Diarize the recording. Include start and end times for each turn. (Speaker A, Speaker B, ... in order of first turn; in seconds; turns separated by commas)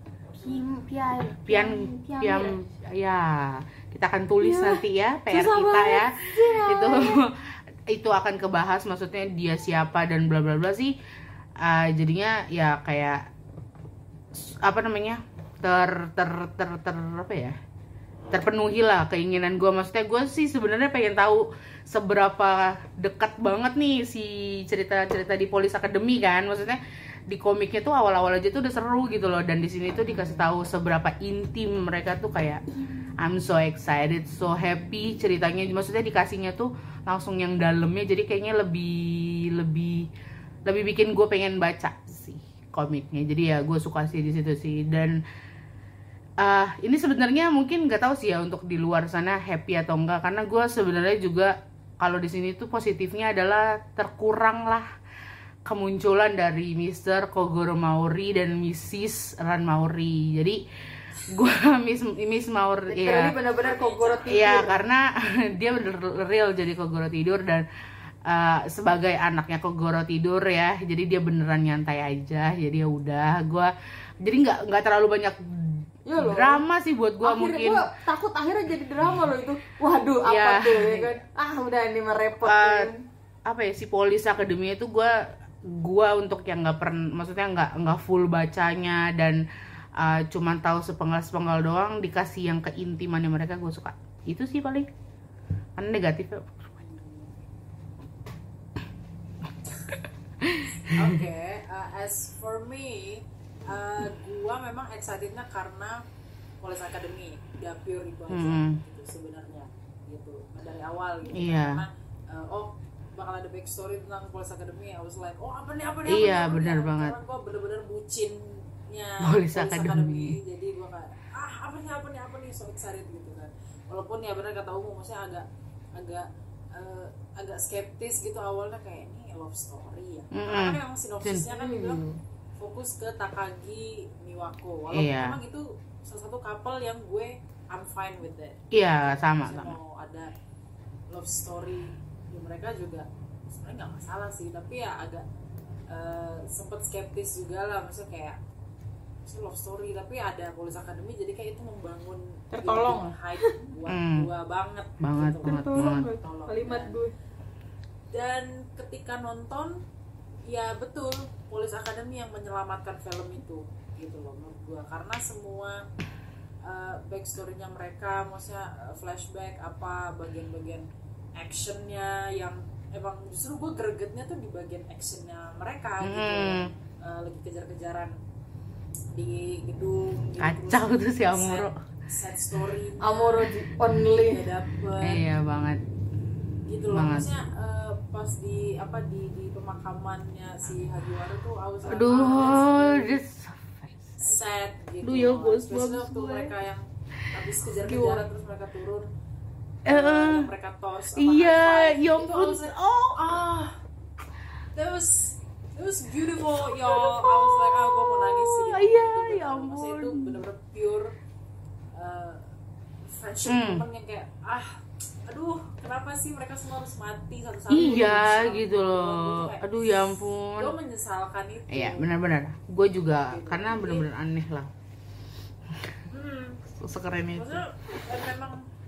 Speaker A: 0.4-2.6, Speaker B: 1.4-10.9, Speaker A: 4.4-7.2, Speaker B: 11.6-13.2, Speaker B: 14.3-17.6, Speaker B: 18.3-32.6, Speaker B: 33.2-40.1, Speaker B: 40.6-45.2, Speaker B: 46.4-54.9, Speaker B: 55.6-60.6, Speaker B: 61.2-63.3, Speaker A: 62.9-64.7, Speaker C: 63.6-64.5, Speaker B: 64.3-67.6, Speaker B: 68.3-77.8, Speaker A: 76.0-76.6, Speaker A: 77.2-83.0, Speaker B: 80.3-81.1, Speaker B: 82.4-82.9, Speaker B: 83.5-89.4, Speaker B: 90.0-94.9, Speaker B: 95.8-96.6, Speaker C: 96.8-97.3, Speaker B: 100.4-101.2, Speaker C: 100.8-106.0, Speaker C: 106.6-125.4, Speaker B: 108.3-108.8, Speaker B: 111.3-111.8, Speaker B: 116.0-117.2, Speaker B: 119.2-120.4, Speaker C: 126.0-132.0, Speaker B: 130.3-131.4, Speaker A: 131.5-132.2, Speaker C: 132.6-138.6, Speaker B: 134.9-135.3, Speaker B: 138.7-139.7, Speaker C: 139.4-140.3, Speaker C: 141.1-145.2, Speaker C: 145.9-148.4, Speaker C: 149.2-157.0, Speaker A: 152.5-153.6, Speaker B: 153.9-154.3, Speaker B: 155.0-156.1, Speaker A: 155.4-157.1, Speaker C: 158.1-159.8, Speaker C: 160.5-165.8, Speaker C: 166.6-170.8, Speaker C: 171.4-178.1, Speaker B: 176.0-176.7, Speaker C: 179.1-185.2, Speaker B: 180.4-181.7, Speaker A: 183.0-184.5, Speaker B: 185.0-185.8, Speaker C: 186.7-193.2, Speaker B: 186.9-187.3, Speaker B: 191.8-193.9, Speaker C: 194.2-199.1, Speaker B: 195.0-196.5, Speaker A: 197.8-198.2, Speaker B: 199.9-200.5, Speaker C: 199.9-203.8, Speaker B: 201.2-203.2, Speaker C: 204.7-211.1, Speaker B: 206.6-210.4, Speaker C: 211.9-212.4, Speaker C: 213.1-214.8, Speaker B: 213.4-213.8, Speaker C: 215.3-222.1, Speaker B: 217.7-220.7, Speaker B: 221.7-224.7, Speaker C: 223.1-224.1, Speaker C: 226.1-226.6, Speaker B: 226.7-227.6, Speaker C: 227.3-228.6